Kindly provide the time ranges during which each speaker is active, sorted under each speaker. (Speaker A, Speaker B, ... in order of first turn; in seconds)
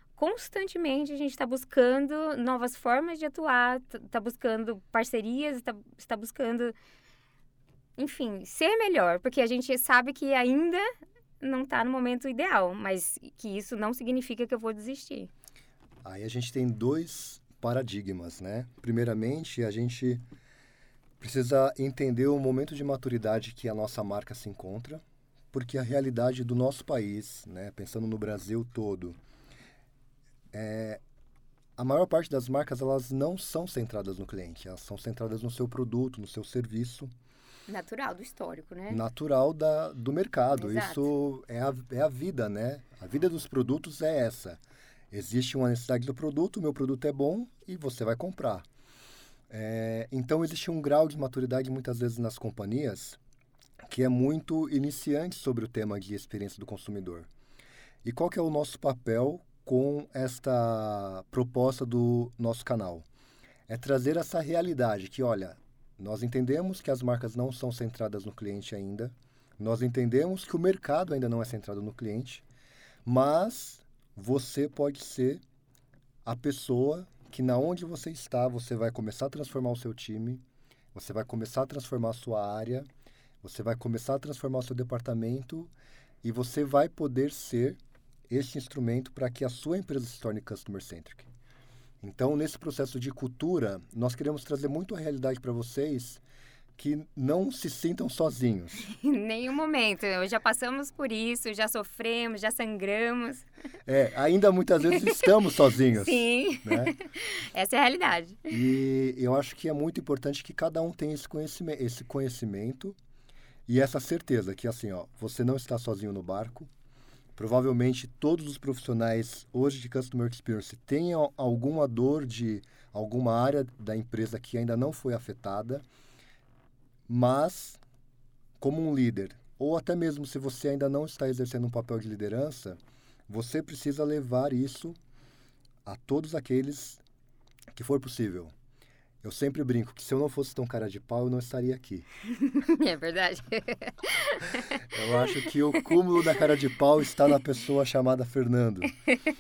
Speaker A: 0.2-6.8, 8.0-10.9, 11.4-15.3, 37.7-39.0, 40.6-41.1, 98.9-103.5, 105.9-108.5, 142.4-144.8
Speaker B: 16.0-20.2, 21.2-29.2, 30.5-31.0, 31.8-37.1, 38.9-44.6, 45.1-48.6, 49.5-53.2, 53.9-57.3, 58.0-63.0, 63.7-72.5, 73.0-75.4, 76.2-80.4, 80.9-82.9, 83.4-85.7, 86.2-91.3, 92.0-96.2, 96.8-98.8, 103.9-107.0, 108.5-113.0, 113.7-116.7, 117.4-125.8, 127.1-127.8, 128.6-135.0, 135.8-137.0, 137.7-138.5, 139.2-142.1, 144.8-149.0